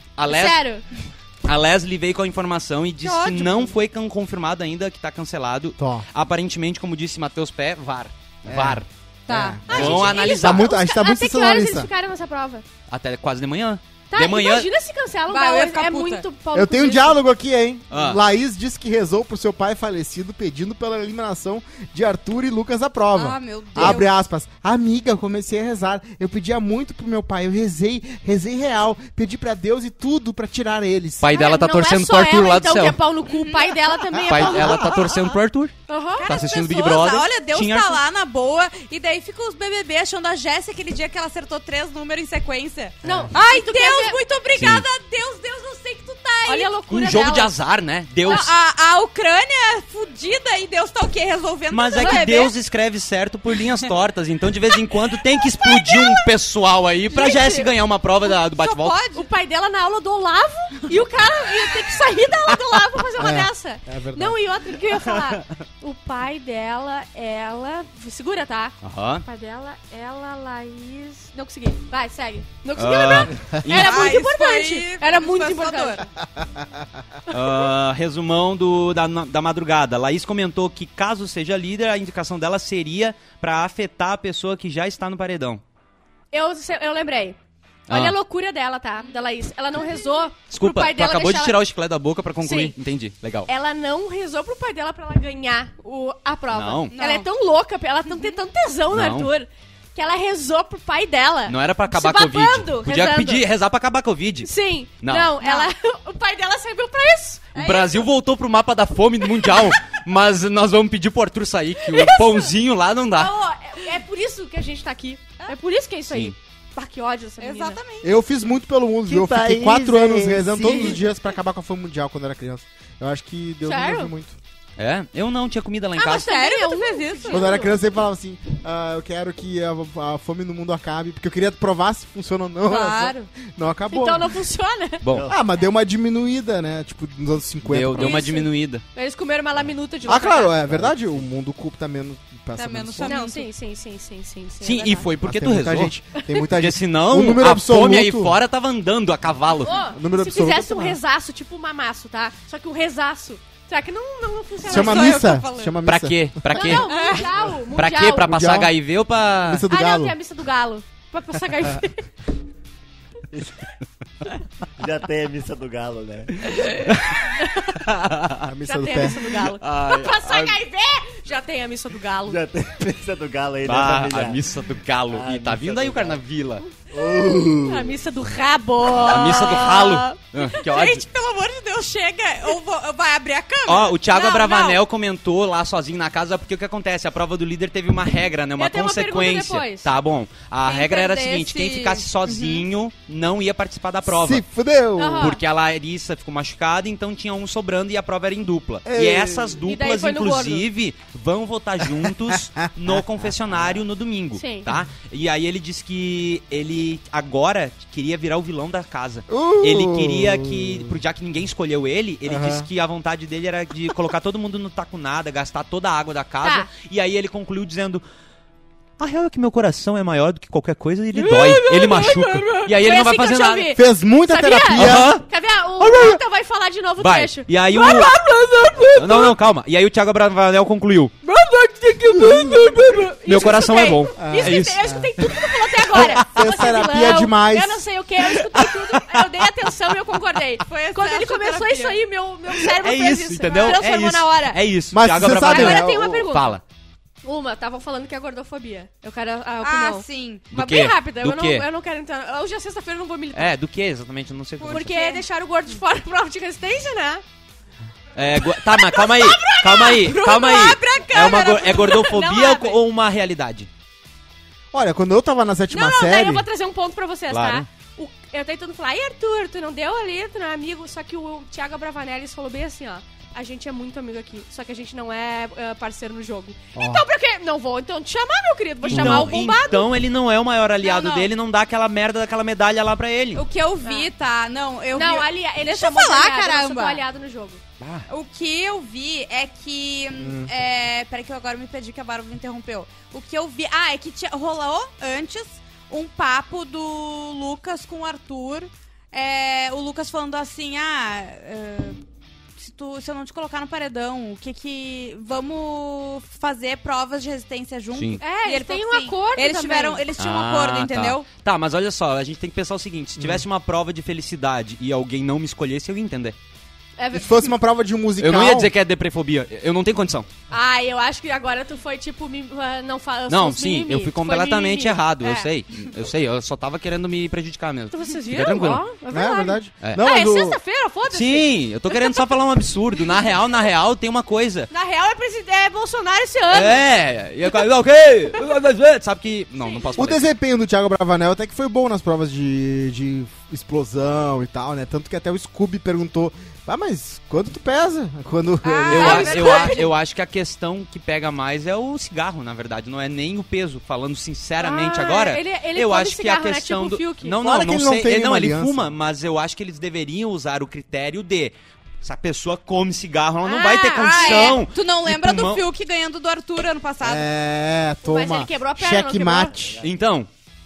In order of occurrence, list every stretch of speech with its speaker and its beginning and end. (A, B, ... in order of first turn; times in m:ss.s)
0:00.2-0:00.6 A
0:00.2-0:00.8 B
0:01.4-0:08.9 A
0:03.0-0:03.7 C
0:05.8-0:06.0 D
0:08.5-0:11.9 D
0:09.3-0:10.1 C
0:09.7-0:10.7 A
0:09.7-0:12.6 B
0:12.9-0:14.7 A
0:14.1-0:17.2 B
0:15.3-0:16.2 C
0:16.5-0:31.3 D
0:17.9-0:18.2 A
0:23.1-0:24.1 C
0:31.2-0:33.0 A
0:31.3-0:35.0 B
0:33.2-0:34.1 C
0:34.3-0:35.7 A
0:34.3-0:35.1 D
0:35.9-0:36.3 B
0:36.2-0:46.8 C
0:36.2-0:38.0 A
0:43.0-0:43.3 D
0:43.0-0:44.2 B
0:44.5-0:44.8 A
0:46.4-0:47.5 B
0:46.9-0:48.5 A
0:48.2-0:52.5 C
0:51.7-0:59.0 A
0:52.0-0:52.5 B
0:55.6-0:56.2 B
0:57.1-0:57.7 B
0:58.5-0:59.3 C
0:59.1-1:16.0 B
1:03.2-1:04.4 D
1:08.8-1:09.2 A
1:12.8-1:14.2 A
1:13.7-1:16.0 C
1:17.3-1:25.6 A
1:26.3-1:27.4 B
1:27.9-1:28.2 A
1:27.9-1:31.6 B
1:30.5-1:33.5 A
1:32.4-1:32.8 B
1:33.5-1:43.5 B
1:36.5-1:37.0 A
1:36.9-1:37.3 C
1:38.9-1:39.3 A
1:41.5-1:44.5 A
1:44.4-1:47.7 B
1:45.0-1:45.4 A
1:45.4-1:45.7 C
1:47.5-1:53.3 A
1:47.6-1:48.0 C
1:51.8-1:52.5 B
1:53.1-1:57.8 B
1:56.1-1:56.3 A
1:57.4-1:58.1 C
1:58.0-2:04.4 D
1:59.0-2:01.0 E
2:03.6-2:04.1 B
2:04.8-2:06.3 A
2:06.0-2:07.8 B
2:06.0-2:07.5 C
2:07.3-2:14.3 D
2:12.6-2:13.3 C
2:13.9-2:15.0 B
2:15.0-2:15.3 A
2:15.1-2:15.4 E
2:15.2-2:18.2 D
2:17.6-2:18.8 A
2:18.0-2:20.9 B
2:20.0-2:23.1 D
2:22.6-2:23.5 C
2:23.0-2:25.1 B
2:24.6-2:29.8 A
2:25.2-2:28.4 D
2:29.6-2:35.3 B
2:29.8-2:31.0 D
2:34.6-2:35.8 C
2:34.6-2:36.5 D
2:35.8-2:39.6 A
2:36.5-2:38.4 B
2:36.7-2:37.3 C
2:38.2-2:38.7 D
2:39.4-2:40.2 D
2:39.7-2:42.1 B
2:43.3-2:43.6 E
2:44.8-2:46.5 E
2:46.6-2:47.2 A
2:47.3-2:47.8 B
2:47.7-2:48.5 A
2:48.4-2:49.3 D
2:48.6-2:52.4 B
2:49.6-2:50.5 A
2:52.3-2:54.4 E
2:53.6-2:56.6 A
2:55.1-2:56.2 E
2:56.9-2:57.9 E
2:57.4-3:00.6 B
2:59.0-3:01.0 A
3:00.5-3:04.8 C
3:03.6-3:14.4 A
3:08.6-3:09.9 B
3:10.6-3:12.6 C
3:14.1-3:15.4 D
3:15.0-3:15.4 B
3:15.2-3:38.0 A
3:18.8-3:19.6 D
3:19.6-3:20.6 B
3:21.8-3:23.0 D
3:24.3-3:24.7 B
3:29.3-3:30.9 D
3:32.2-3:32.7 D
3:36.4-3:36.7 B
3:39.0-3:43.8 A
3:41.1-3:49.3 B
3:43.7-3:45.2 D
3:44.7-3:45.2 A
3:45.8-3:46.2 A
3:47.0-3:48.1 A
3:48.7-3:49.3 D
3:48.9-3:51.1 A
3:51.2-4:04.6 B
3:52.1-3:52.9 D
3:52.2-3:54.9 A
3:54.2-3:55.1 D
3:55.8-3:57.8 D
4:00.6-4:02.0 C
4:02.7-4:06.6 A
4:04.9-4:06.3 D
4:05.2-4:06.6 B
4:07.2-4:13.5 B
4:09.6-4:10.5 C
4:10.5-4:11.7 A
4:13.3-4:14.9 A
4:14.6-4:15.2 C
4:14.7-4:17.2 B
4:18.1-4:23.7 A
4:18.5-4:22.8 B
4:20.9-4:21.3 C
4:24.7-4:26.4 D
4:25.7-4:39.9 B
4:27.3-4:27.7 A
4:36.7-4:37.0 D
4:38.8-4:43.4 A
4:40.9-4:41.2 B
4:43.3-4:47.0 C
4:43.8-4:44.1 B
4:44.9-4:47.6 B
4:47.8-4:48.0 A
4:48.1-5:02.0 C
4:50.2-4:50.5 D
5:02.6-5:11.3 C
5:07.9-5:08.2 A
5:08.2-5:10.0 B
5:10.2-5:16.4 A
5:13.2-5:13.4 D
5:17.0-5:17.5 B
5:17.1-5:18.7 D
5:18.2-5:20.3 A
5:20.5-5:25.5 B
5:23.3-5:28.8 A
5:27.9-5:32.4 B
5:29.1-5:30.6 D
5:31.1-5:34.7 A
5:34.7-5:36.9 B
5:36.5-5:40.3 A
5:39.6-5:39.9 B
5:40.0-5:49.7 D
5:48.7-5:49.8 C
5:48.7-5:49.9 B
5:48.9-6:05.6 A
5:54.6-5:57.4 B
5:57.4-5:58.9 D
6:03.4-6:04.6 B
6:03.7-6:07.2 C
6:07.0-6:09.8 D
6:08.0-6:09.6 B
6:09.8-6:10.3 A